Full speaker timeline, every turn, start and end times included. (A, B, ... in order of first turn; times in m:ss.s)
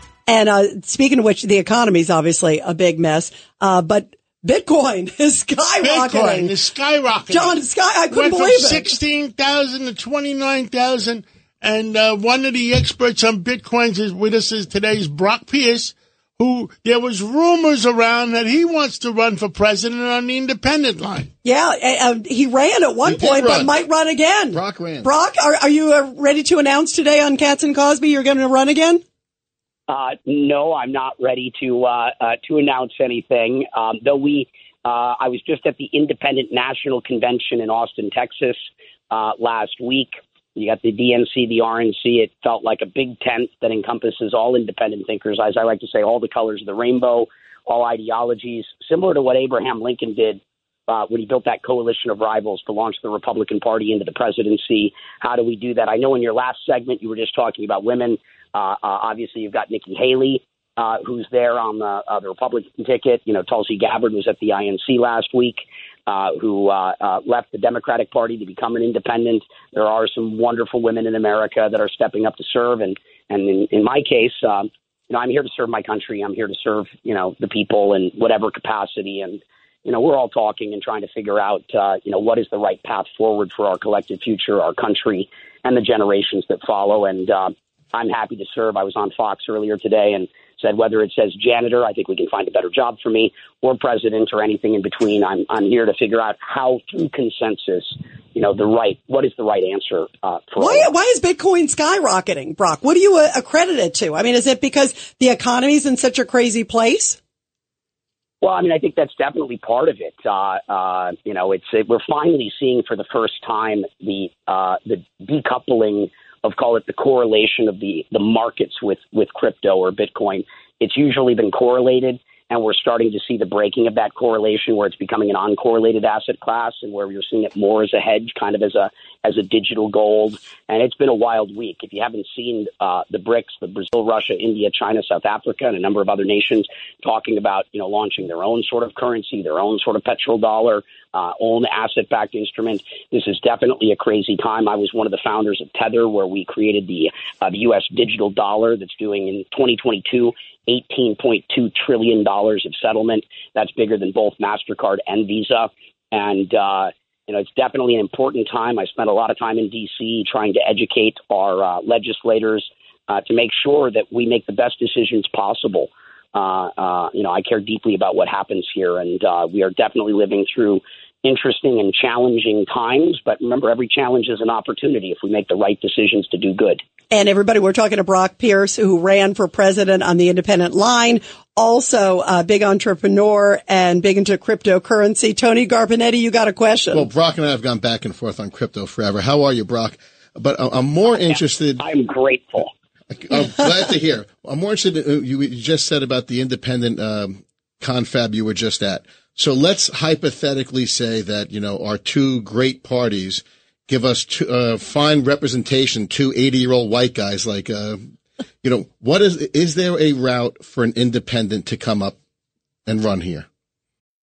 0:00.3-0:06.5 A
0:05.8-0:21.3 B
0:07.3-0:08.9 A
0:21.4-0:29.0 A
0:23.0-0:23.8 C
0:24.5-0:25.1 C
0:29.9-0:38.6 D
0:39.1-1:40.9 D
1:40.6-1:47.2 A
1:48.4-2:56.8 D
2:57.1-3:07.1 A
3:06.9-3:11.8 C
3:11.1-3:12.7 D
3:13.1-3:28.0 C
3:28.6-3:32.2 C
3:32.9-3:33.4 C